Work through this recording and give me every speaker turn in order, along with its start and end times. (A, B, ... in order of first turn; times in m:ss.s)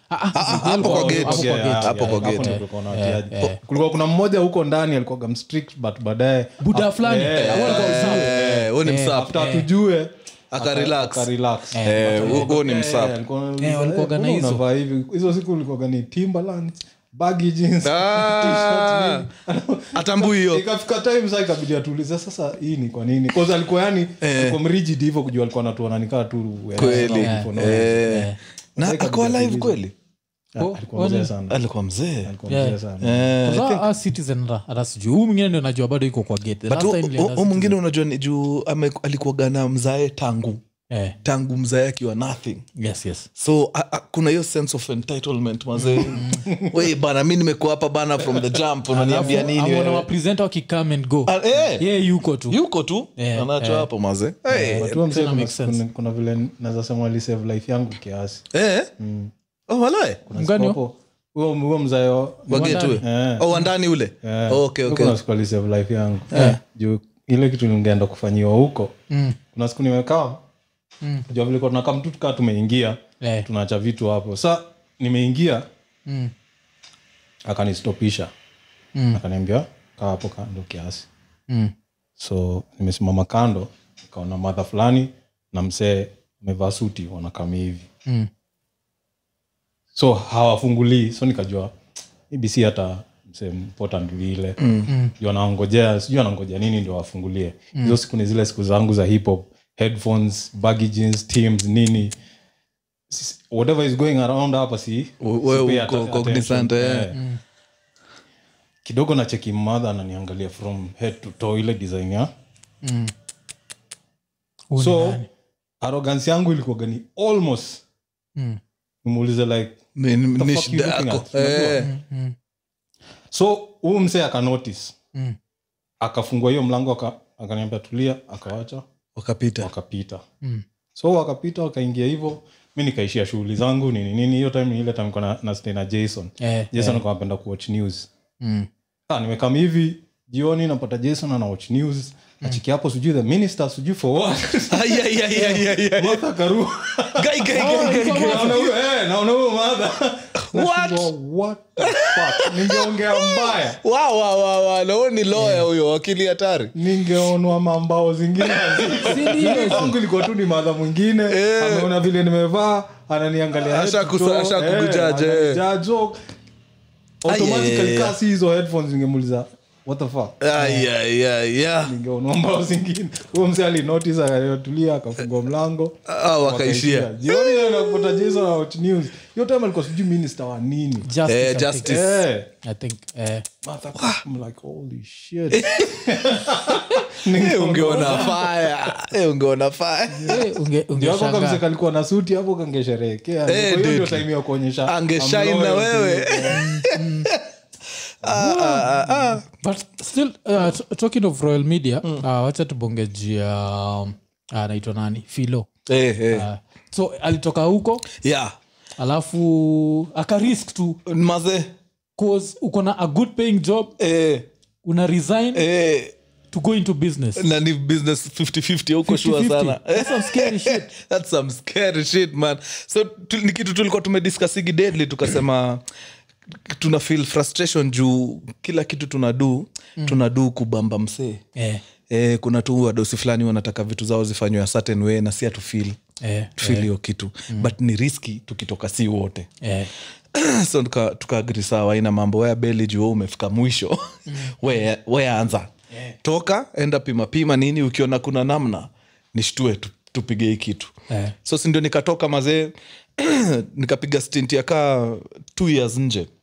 0:00.1-0:03.6 A
0:00.3-0:02.6 B
0:00.5-0:28.1 C
0:06.6-0:09.7 A
0:07.3-0:09.3 B
0:10.5-0:11.3 B
0:11.7-0:12.5 A
0:11.8-0:13.2 B
0:13.6-0:14.6 A
0:17.8-0:19.3 B
0:19.9-0:20.6 B
0:24.2-0:24.6 B
0:26.8-0:28.4 A
0:26.8-0:29.9 B
0:28.8-0:29.8 C
0:30.5-0:31.6 C
0:30.6-0:31.3 A
0:31.5-0:32.3 B
0:32.2-0:33.7 C
0:32.5-0:32.8 A
0:33.0-0:33.8 B
0:33.4-0:37.8 A
0:36.7-0:40.6 B
0:40.9-0:41.2 A
0:41.2-0:42.6 B
0:42.8-0:43.3 A
0:43.4-0:50.1 B
0:45.9-0:46.5 A
0:46.0-0:46.8 C
0:48.9-0:52.6 A
0:49.2-0:49.5 C
0:51.3-0:51.8 B
0:52.5-0:55.0 B
0:53.2-0:53.9 A
0:54.5-0:58.4 C
0:54.5-0:55.8 A
0:58.5-0:58.9 B
0:59.0-0:59.3 C
0:59.7-1:00.2 B
1:00.3-1:03.5 C
1:00.3-1:00.8 A
1:02.5-1:05.2 B
1:02.5-1:03.0 A
1:04.2-1:08.9 C
1:06.3-1:06.6 A
1:06.3-1:06.6 B
1:09.1-1:09.4 A
1:09.5-1:10.4 C
1:11.3-1:15.6 C
1:13.2-1:13.5 A
1:16.0-1:16.3 A
1:17.4-1:18.3 C
1:18.9-1:19.2 A
1:19.1-1:21.1 C
1:21.5-1:21.7 A
1:22.2-1:27.9 C
1:29.9-1:31.7 C
1:32.3-1:34.6 C
1:34.6-1:34.9 B
1:34.9-1:35.1 A
1:35.2-1:42.1 C
1:43.1-1:47.2 C
1:45.2-1:47.1 B
1:47.1-1:47.4 A
1:48.8-1:52.3 C
1:52.8-1:53.1 A
1:54.7-1:55.3 A
1:54.8-1:55.2 C
1:55.8-1:57.8 C
1:59.0-1:59.8 C
2:00.0-2:01.9 B
2:00.3-2:01.8 C
2:01.8-2:02.3 A
2:03.3-2:04.9 C
2:06.0-2:08.8 C
2:09.2-2:09.7 B
2:09.6-2:10.2 C
2:11.0-2:18.1 C
2:16.4-2:17.0 A
2:18.4-2:18.7 A
2:19.1-2:33.8 C
2:24.7-2:26.2 B
2:27.1-2:28.8 B
2:27.5-2:28.7 A
2:30.4-2:31.1 B
2:31.8-2:36.7 B
2:35.4-2:35.6 A
2:36.7-2:46.2 C
2:38.4-2:40.0 B
2:39.0-2:39.9 A
2:41.3-2:42.0 B
2:43.6-2:45.6 B
2:47.2-2:50.9 C
2:47.2-2:48.2 B
2:50.4-2:51.9 B
2:51.8-3:01.1 C
2:56.1-2:58.5 B
3:01.0-3:02.0 A
3:01.2-3:02.2 B
3:01.8-3:02.5 C
3:02.6-3:03.4 A
3:03.6-3:08.5 C
3:04.0-3:04.2 B
3:05.5-3:10.4 B
3:10.1-3:10.4 C
3:10.3-3:11.6 A
3:10.9-3:16.6 C
3:13.4-3:14.2 B
3:14.8-3:17.4 B
3:16.5-3:17.3 A
3:18.2-3:19.4 B
3:18.3-3:25.7 A
3:25.9-3:26.5 B
3:26.3-3:28.1 A
3:28.1-3:28.5 B
3:29.0-3:31.0 A
3:31.0-3:31.7 B
3:32.2-3:34.0 A
3:34.0-3:34.5 B
3:34.8-3:35.6 A
3:35.5-3:36.1 B
3:36.5-3:37.5 A
3:37.4-3:45.8 B
3:39.0-3:40.9 A
3:46.5-3:51.4 B
3:51.6-3:51.8 A
3:52.1-3:56.0 B
3:56.2-3:56.9 A
3:56.6-3:59.5 B
3:59.6-3:59.9 A
4:00.3-4:10.9 B
4:04.3-4:04.6 A
4:11.1-4:11.3 A
4:11.4-4:16.3 B